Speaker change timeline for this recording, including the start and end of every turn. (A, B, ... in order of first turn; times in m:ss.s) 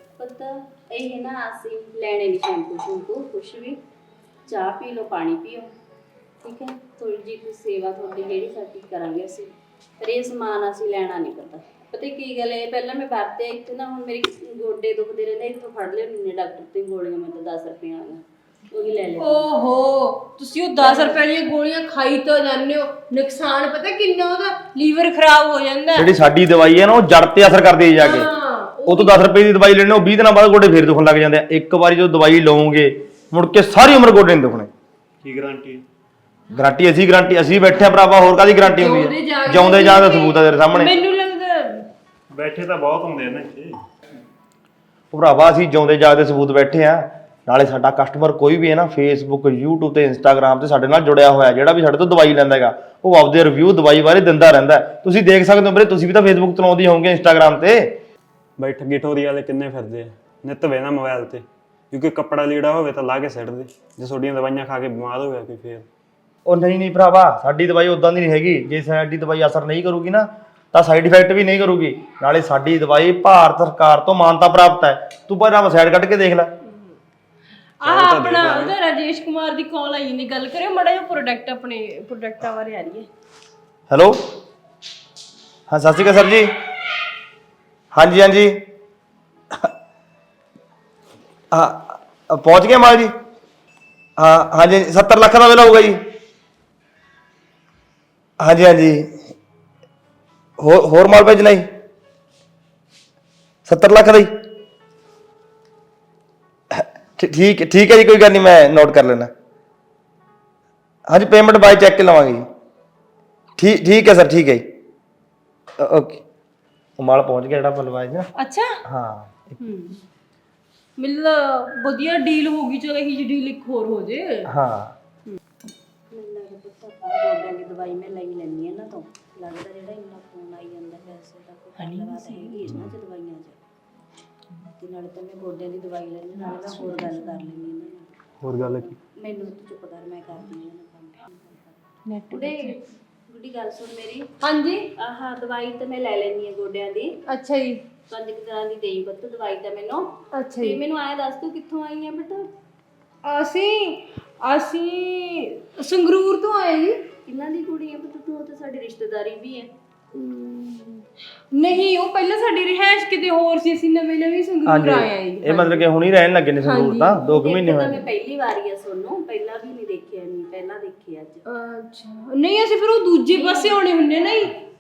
0:00.2-0:03.8 A
0:04.5-0:05.7 A
0:06.4-0:19.5 A
0:19.2-0:26.1 B
0:20.8-0:21.2 A
0:26.0-0:28.3 C
0:28.0-0:29.2 B
0:28.9-0:34.7 C
0:35.2-0:35.8 D
0:36.5-0:41.0 C
0:38.6-0:41.9 B
0:42.3-0:43.8 D
0:45.1-0:58.0 C
0:58.6-1:05.9 D
1:06.5-1:16.5 C
1:17.8-1:23.1 B
1:17.8-1:18.8 D
1:23.9-1:24.2 C
1:25.7-1:26.5 C
1:27.9-1:28.6 C
1:31.5-1:33.1 C
1:34.2-1:36.0 C
1:38.4-1:39.2 C
1:40.6-1:41.7 C
1:43.6-1:44.3 C
1:46.7-1:49.3 C
1:51.1-1:52.5 C
1:53.6-1:54.7 C
1:55.8-1:56.2 C
1:57.0-1:58.3 C
1:58.4-1:58.8 B
1:58.8-1:59.6 C
1:59.6-2:00.0 B
2:01.0-2:04.5 B
2:04.5-2:05.0 C
2:06.1-2:13.6 A
2:11.8-2:12.8 B
2:14.8-2:22.8 A
2:16.4-2:17.5 B
2:18.4-2:19.0 D
2:22.1-2:22.8 B
2:23.3-2:24.3 A
2:24.4-2:24.9 B
2:25.0-2:27.1 A
2:27.3-2:27.8 B
2:28.1-2:32.5 A
2:30.3-2:30.8 B
2:33.2-2:37.0 B
2:37.3-2:39.7 A
2:40.1-2:45.9 B
2:44.7-2:48.0 C
2:46.6-2:47.2 B
2:47.2-2:51.4 A
2:51.5-2:54.5 B
2:53.3-2:54.6 A